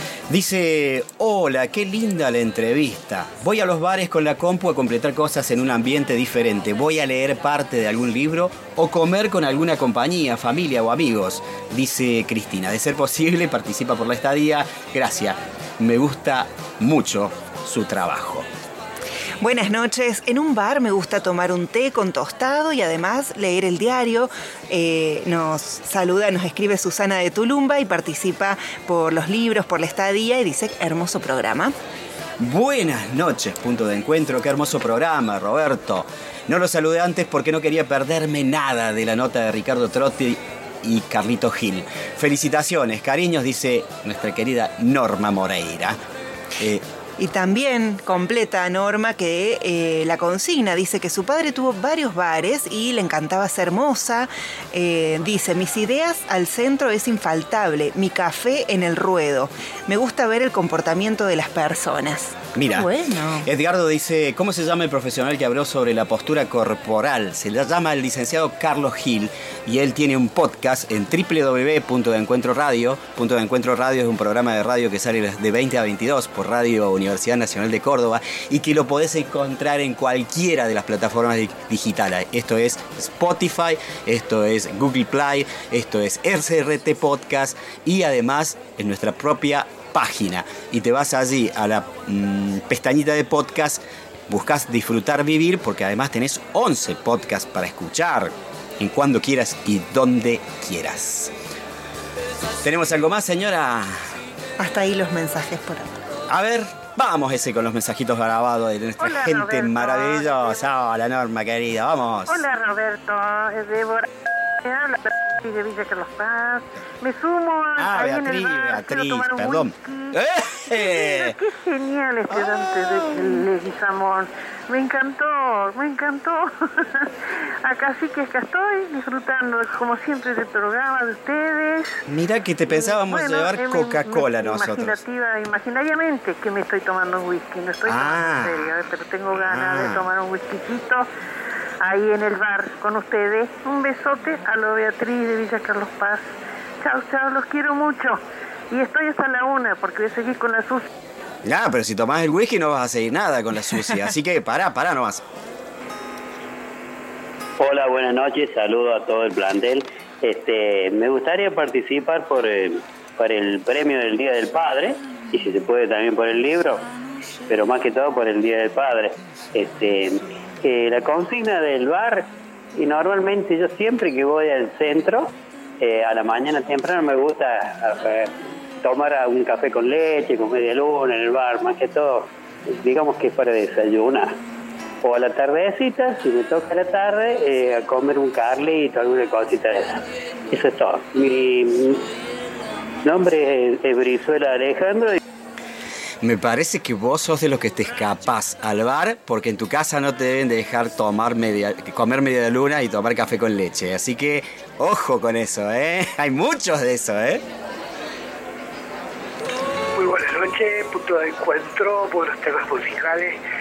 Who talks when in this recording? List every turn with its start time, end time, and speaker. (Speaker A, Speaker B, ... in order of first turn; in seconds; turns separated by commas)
Speaker A: 0.3-18.5, Speaker B: 19.4-31.7, Speaker A: 32.4-46.0, Speaker A: 46.6-46.8, Speaker B: 47.2-63.5, Speaker A: 62.5-62.9, Speaker A: 63.4-101.3, Speaker A: 102.6-104.1, Speaker B: 104.6-106.0, Speaker A: 106.3-112.4, Speaker C: 109.0-110.6, Speaker C: 112.3-114.1, Speaker C: 114.6-120.2, Speaker A: 117.8-121.3, Speaker C: 120.7-127.1, Speaker C: 127.6-131.9, Speaker A: 132.1-135.0, Speaker C: 132.7-141.1, Speaker A: 137.9-138.7, Speaker A: 139.3-140.0, Speaker C: 141.8-146.3, Speaker C: 146.8-148.2, Speaker C: 148.7-150.9, Speaker A: 151.4-155.2, Speaker D: 157.6-166.9, Speaker D: 167.5-184.3, Speaker D: 185.0-190.0, Speaker D: 190.5-192.0, Speaker D: 193.0-195.2, Speaker A: 196.2-207.4, Speaker E: 210.0-213.3